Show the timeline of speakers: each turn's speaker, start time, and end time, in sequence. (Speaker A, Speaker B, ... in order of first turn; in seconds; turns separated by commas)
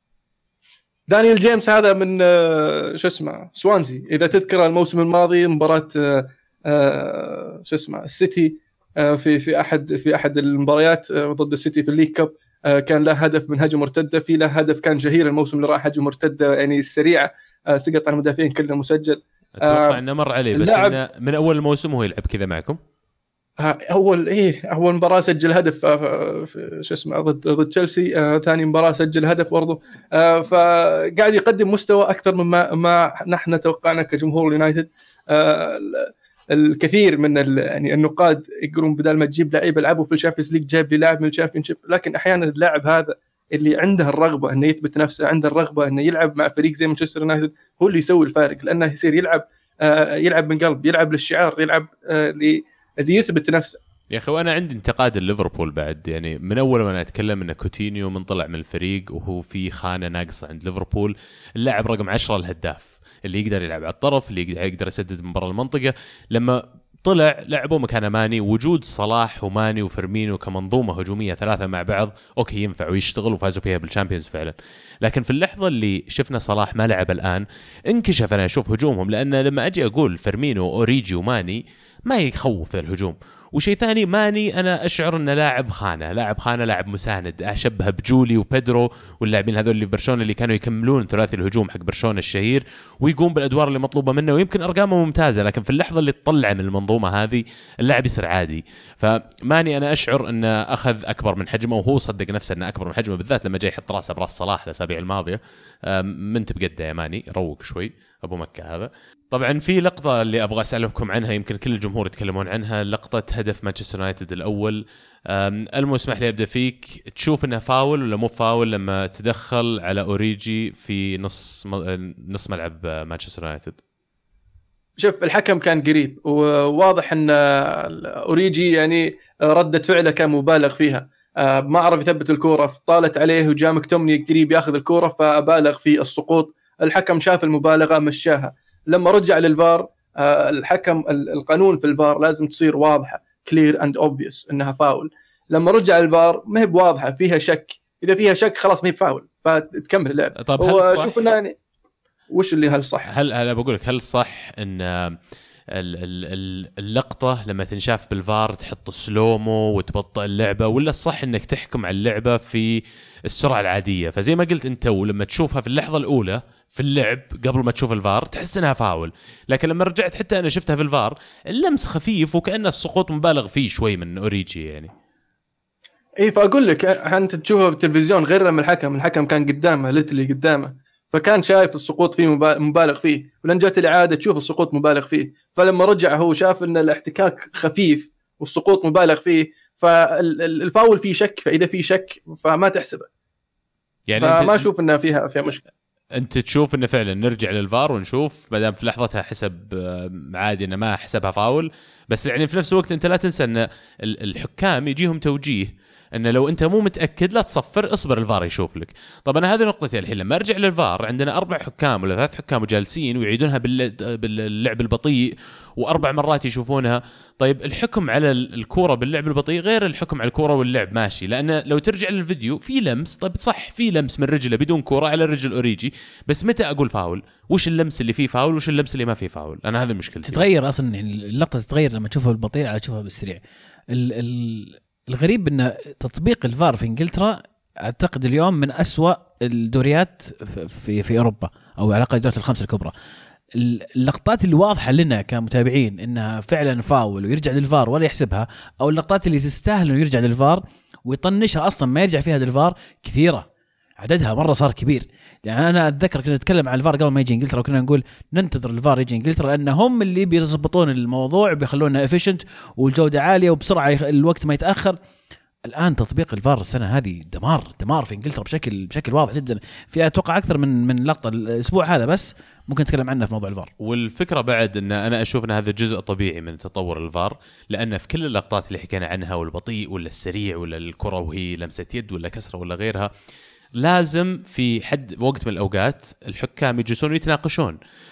Speaker A: 1.1-20.0, Speaker B: 19.6-22.8, Speaker A: 20.5-21.0, Speaker A: 23.6-53.8, Speaker B: 54.1-123.8, Speaker A: 125.0-151.5, Speaker B: 150.4-151.1, Speaker A: 152.3-153.1, Speaker B: 153.0-155.2, Speaker B: 155.7-174.9, Speaker A: 176.2-193.1, Speaker B: 194.1-194.7, Speaker A: 194.2-195.6, Speaker B: 196.1-230.5, Speaker C: 230.3-233.4, Speaker C: 233.9-242.9, Speaker C: 243.5-253.5, Speaker C: 254.0-265.0, Speaker C: 265.6-273.7, Speaker B: 273.8-283.1, Speaker B: 283.8-287.8